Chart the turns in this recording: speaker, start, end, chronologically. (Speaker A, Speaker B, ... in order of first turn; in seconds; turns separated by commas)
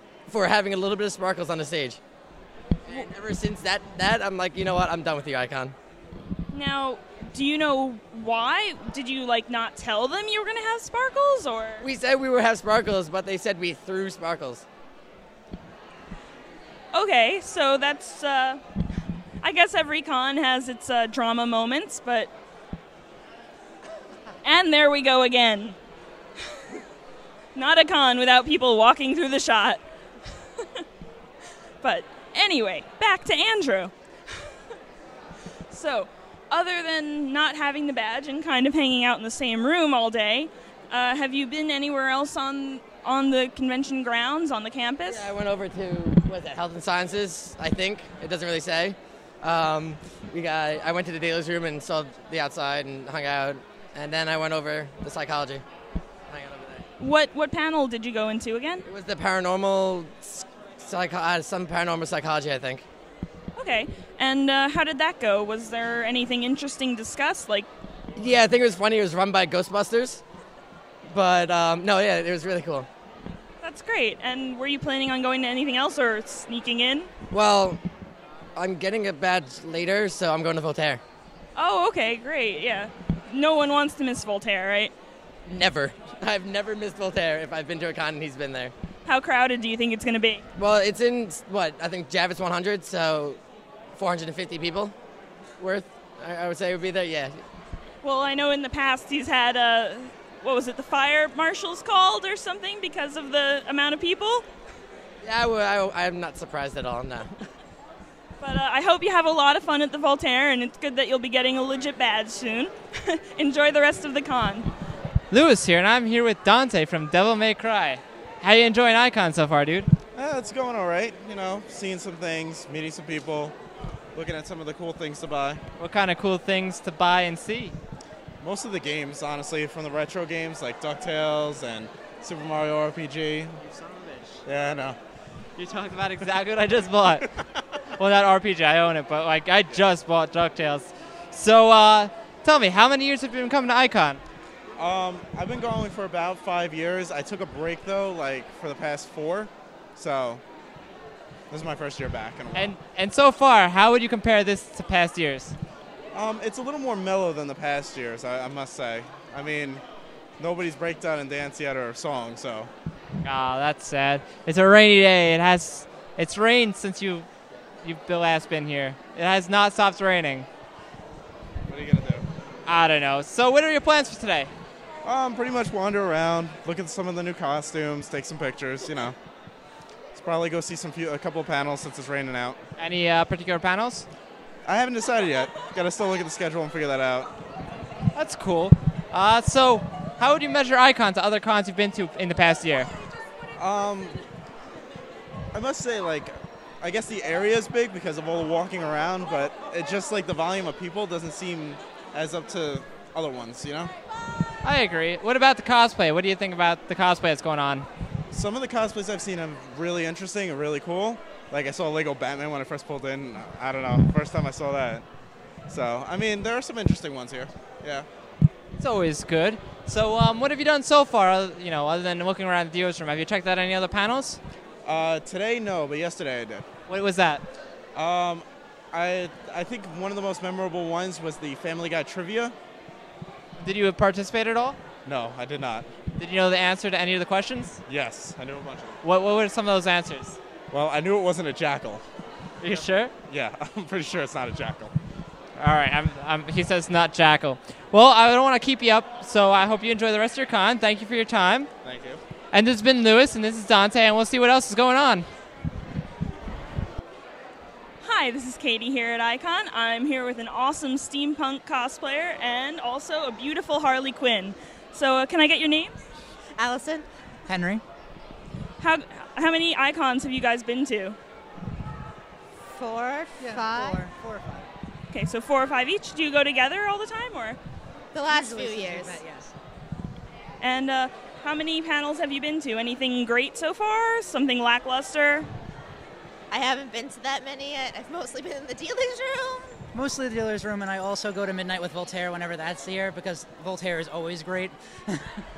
Speaker A: 0.3-2.0, Speaker A: 2.9-5.8, Speaker B: 6.5-11.8, Speaker A: 11.8-14.6, Speaker B: 16.9-18.6, Speaker B: 19.4-22.3, Speaker B: 24.4-25.8, Speaker B: 27.5-29.8, Speaker B: 31.8-33.9, Speaker B: 35.7-45.2, Speaker A: 45.0-55.6, Speaker A: 56.3-56.8, Speaker B: 57.0-58.8, Speaker A: 58.9-62.9, Speaker B: 63.5-67.7, Speaker A: 68.2-70.2, Speaker A: 71.1-72.9, Speaker B: 73.6-77.1, Speaker A: 77.3-77.8, Speaker A: 78.5-81.0, Speaker B: 81.5-84.9, Speaker A: 85.5-88.7, Speaker B: 89.0-90.4, Speaker A: 90.5-93.4, Speaker A: 94.0-94.9, Speaker A: 95.6-97.4, Speaker B: 98.0-104.4, Speaker A: 105.2-107.3, Speaker B: 108.4-112.7, Speaker B: 113.3-114.7, Speaker C: 115.3-119.9, Speaker D: 120.1-123.5, Speaker D: 124.1-125.6, Speaker C: 125.8-127.8, Speaker D: 128.4-133.6, Speaker C: 133.6-134.4, Speaker D: 134.4-135.0, Speaker C: 135.6-137.3, Speaker C: 137.9-144.2, Speaker D: 144.8-150.4, Speaker D: 151.5-152.7, Speaker C: 152.5-155.6, Speaker D: 156.1-159.8, Speaker D: 160.4-162.7, Speaker C: 163.2-167.3, Speaker C: 167.8-170.5, Speaker D: 171.7-172.2, Speaker C: 172.7-174.5, Speaker D: 175.0-179.2, Speaker D: 180.1-182.6, Speaker C: 182.8-184.1, Speaker D: 184.7-187.3, Speaker C: 188.1-192.9, Speaker D: 193.6-194.2, Speaker D: 195.5-203.9, Speaker C: 204.6-207.9, Speaker D: 208.3-215.0, Speaker D: 215.7-218.1, Speaker C: 218.8-224.4, Speaker D: 224.8-226.7, Speaker C: 226.9-227.4, Speaker D: 227.9-232.5, Speaker C: 233.6-234.8, Speaker D: 235.0-235.9, Speaker C: 236.2-237.8, Speaker D: 237.9-239.0, Speaker C: 239.0-240.4, Speaker D: 240.7-242.0, Speaker C: 242.6-243.1, Speaker D: 242.6-244.9, Speaker C: 245.6-251.7, Speaker D: 251.8-252.2, Speaker C: 252.5-255.3, Speaker B: 258.0-266.0, Speaker E: 266.6-267.1, Speaker F: 267.4-267.8, Speaker B: 268.8-271.2, Speaker E: 272.6-274.0, Speaker F: 273.4-274.7, Speaker B: 275.1-277.6, Speaker E: 278.1-279.2, Speaker F: 278.3-279.5, Speaker B: 280.6-285.5, Speaker E: 286.5-289.8, Speaker F: 289.9-295.3